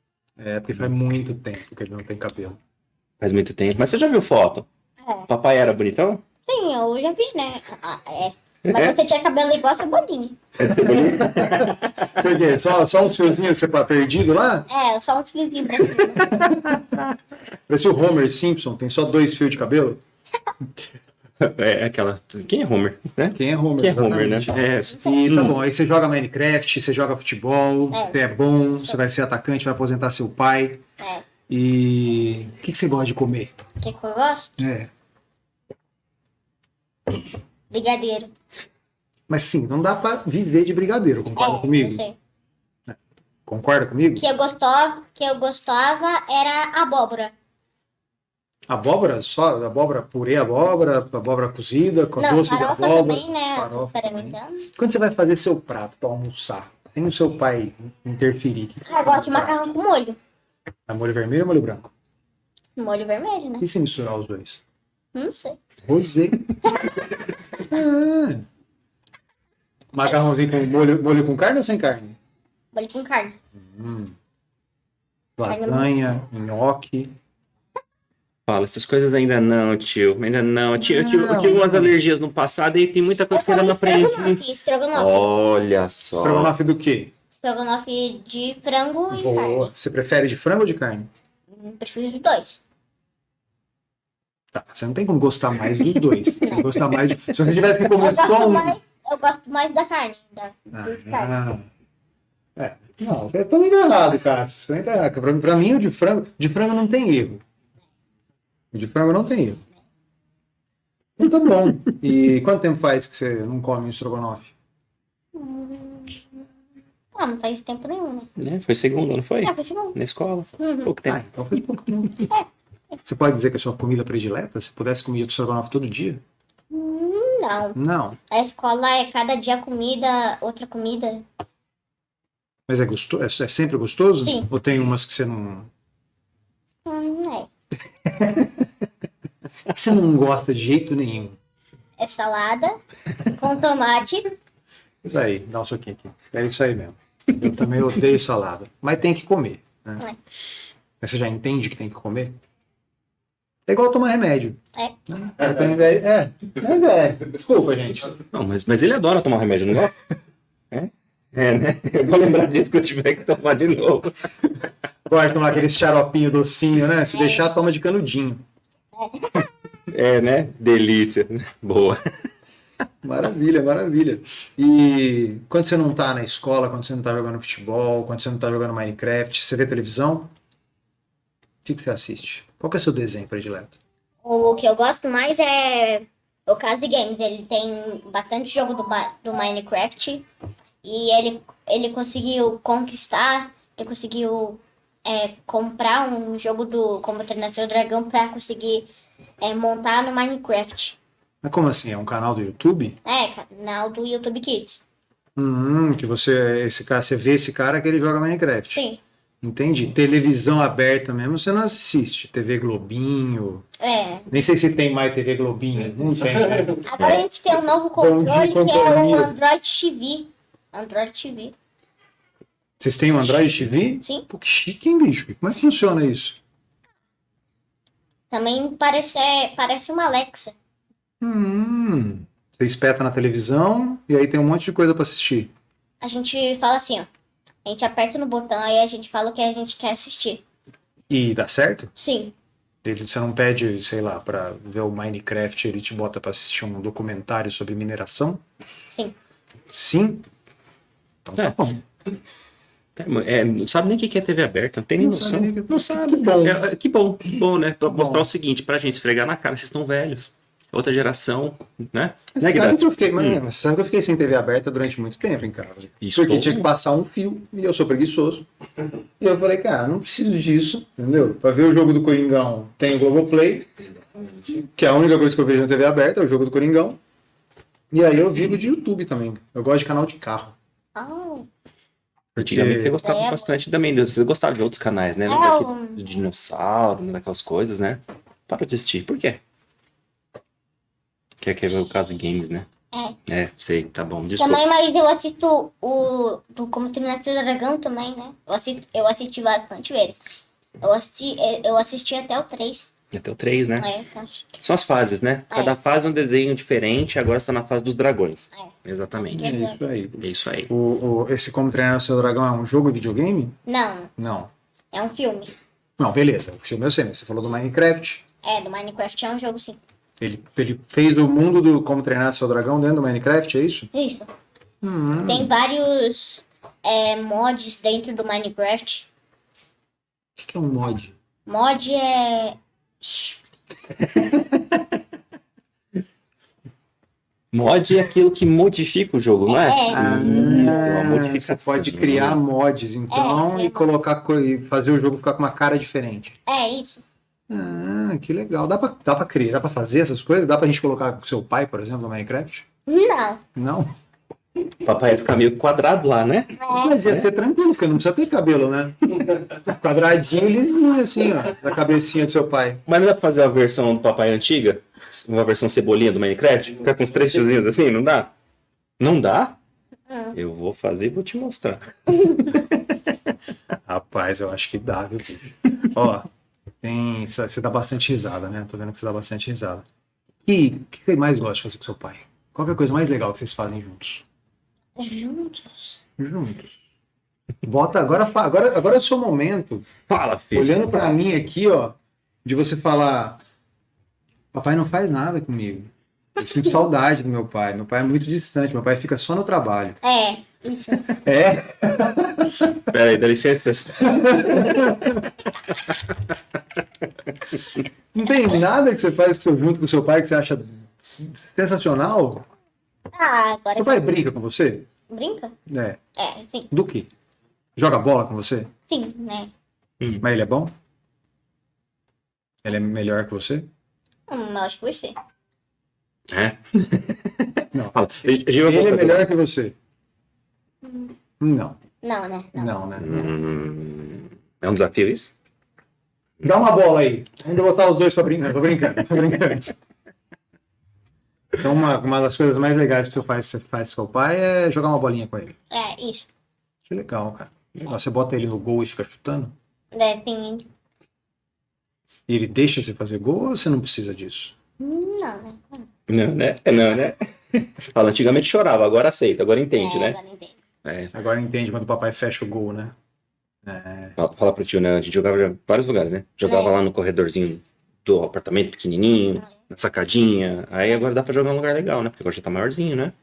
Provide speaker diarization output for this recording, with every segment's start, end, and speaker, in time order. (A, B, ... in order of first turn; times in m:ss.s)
0:00.4-0:02.6 A
0:03.2-0:04.7 B
0:05.0-0:05.3 C
0:05.3-0:06.2 B
0:06.5-0:10.4 C
0:08.7-0:09.0 B
0:10.6-0:12.1 B
0:10.6-0:14.7 A
0:14.7-0:16.4 C
0:16.3-0:16.9 A
0:17.7-0:20.0 A
0:21.4-0:25.6 B
0:23.3-0:30.8 A
0:24.9-0:25.3 C
0:27.9-0:28.2 C
0:31.0-0:31.2 C
0:31.5-0:33.5 A
0:33.8-0:34.6 C
0:34.6-0:34.9 A
0:37.7-0:38.3 C
0:39.3-0:42.0 A
0:41.4-0:42.2 C
0:42.9-0:44.2 A
0:44.2-0:47.3 C
0:48.7-0:59.7 A
0:52.2-0:54.7 C
0:58.9-1:00.2 C
1:00.9-1:01.9 A
1:02.8-1:03.7 C
1:03.6-1:04.6 A
1:05.1-1:05.6 C
1:05.8-1:06.6 A
1:07.6-1:08.4 A
1:09.9-1:12.2 A
1:12.7-1:13.4 C
1:13.6-1:14.1 A
1:15.4-1:17.2 A
1:15.5-1:15.9 C
1:18.5-1:24.4 B
1:20.8-1:21.9 A
1:23.3-1:25.3 C
1:24.9-1:26.5 B
1:26.2-1:27.1 A
1:27.4-1:29.7 C
1:29.1-1:31.1 A
1:31.5-1:32.6 C
1:34.5-1:38.8 A
1:36.4-1:36.8 C
1:38.0-1:41.3 C
1:40.7-1:41.7 A
1:42.6-1:47.4 A
1:48.7-1:49.6 A
1:51.2-1:54.5 A
1:55.4-1:56.2 C
1:57.1-1:58.3 C
1:58.4-2:01.2 B
1:59.4-2:00.0 C
2:00.6-2:00.9 C
2:01.0-2:02.3 A
2:02.3-2:03.0 C
2:03.0-2:06.2 A
2:06.7-2:07.8 C
2:07.8-2:08.2 A
2:08.3-2:11.3 C
2:12.7-2:15.7 A
2:14.2-2:14.5 C
2:16.9-2:17.5 C
2:18.0-2:18.7 A
2:19.7-2:21.4 A
2:22.0-2:24.3 C
2:25.0-2:30.0 A
2:31.0-2:32.4 A
2:33.7-2:38.2 A
2:38.2-2:40.1 B
2:40.7-2:44.1 B
2:45.1-2:48.4 A
2:47.1-2:47.4 C
2:48.9-2:49.5 C
2:49.9-2:52.0 B
2:53.0-3:00.3 A
3:01.6-3:03.8 A
3:04.2-3:10.2 C
3:10.8-3:18.9 C
3:19.4-3:21.0 C
3:21.4-3:23.0 A
3:23.0-3:24.8 C
3:25.4-3:28.8 A
3:28.7-3:29.0 C
3:29.4-3:33.7 A
3:33.8-3:34.3 C
3:34.3-3:37.3 A
3:36.8-3:41.5 C
3:38.0-3:39.3 A
3:42.8-3:46.4 A
3:44.0-3:44.3 C
3:48.3-3:50.6 C
3:51.2-3:55.5 A
3:56.0-3:57.1 C
3:57.6-4:00.4 C
4:01.1-4:01.9 A
4:02.0-4:02.3 C
4:02.8-4:08.4 A
4:08.9-4:09.2 C
4:09.7-4:10.2 A
4:11.2-4:11.8 A
4:13.0-4:23.4 B
4:15.0-4:16.6 A
4:17.9-4:18.3 A
4:22.4-4:28.5 A
4:26.0-4:26.7 B
4:29.2-4:33.7 A
4:34.5-4:37.0 A
4:37.9-4:40.6 A
4:41.0-4:41.5 C
4:42.4-4:43.0 A
4:42.4-4:49.4 B
4:43.0-4:43.5 C
4:45.3-4:46.0 C
4:51.4-4:52.7 B
4:52.9-4:53.2 C
4:53.3-4:54.6 B
4:54.4-5:00.2 C
5:00.8-5:02.9 C
5:03.1-5:03.9 B
5:03.8-5:04.6 C
5:04.6-5:09.6 B
5:08.5-5:09.8 C
5:09.4-5:13.6 A
5:10.2-5:10.7 B
5:13.7-5:14.1 C
5:14.2-5:14.5 A
5:14.9-5:15.5 C
5:16.0-5:18.2 A
5:18.4-5:19.8 C
5:20.2-5:23.9 A
5:23.9-5:24.3 C
5:24.8-5:25.5 A
5:25.3-5:29.1 C
5:30.4-5:31.1 A
5:31.5-5:33.4 C
5:37.5-5:42.4 B
5:39.5-5:40.8 C
5:39.9-5:46.4 A
5:43.1-5:43.9 C
5:46.5-5:47.0 C
5:47.5-5:52.6 A
5:52.9-5:53.4 C
5:53.6-5:53.9 A
5:54.8-5:56.6 B
5:56.6-5:57.0 C
5:56.8-6:02.8 A
6:02.9-6:08.3 B
6:09.0-6:09.6 B
6:10.1-6:10.4 C
6:10.4-6:12.6 B
6:13.9-6:16.3 A
6:16.8-6:19.9 A
6:20.4-6:24.2 A
6:25.0-6:26.0 C
6:26.2-6:26.8 A
6:27.6-6:29.9 A
6:30.1-6:30.8 B
6:30.5-6:33.4 A
6:34.5-6:40.0 A
6:40.0-6:41.1 C
6:41.1-6:42.8 A
6:42.9-6:44.9 B
6:44.0-6:45.3 A
6:48.1-6:52.5 A
6:53.1-6:54.1 C
6:53.8-6:54.9 A
6:55.1-6:55.6 C
6:55.7-6:56.0 A
6:56.2-6:56.7 C
6:56.7-6:57.1 A
6:57.8-6:58.7 A
6:58.9-6:59.5 C
7:00.2-7:00.7 A
7:02.6-7:03.7 A
7:04.3-7:05.2 C
7:06.3-7:09.3 B
7:07.7-7:09.8 A
7:10.8-7:11.1 C
7:11.4-7:11.8 A
7:12.0-7:12.7 C
7:12.6-7:13.3 A
7:13.0-7:15.3 B
7:16.4-7:19.7 A
7:21.6-7:25.6 A
7:25.7-7:26.3 C
7:26.8-7:29.6 A
7:29.9-7:30.7 C
7:32.3-7:34.5 A
7:34.8-7:35.9 C
7:36.1-7:40.2 B
7:39.8-7:40.6 C
7:40.8-7:41.1 B
7:41.1-7:43.0 A
7:43.6-7:44.2 A
7:44.2-7:53.1 B
7:46.4-7:46.8 C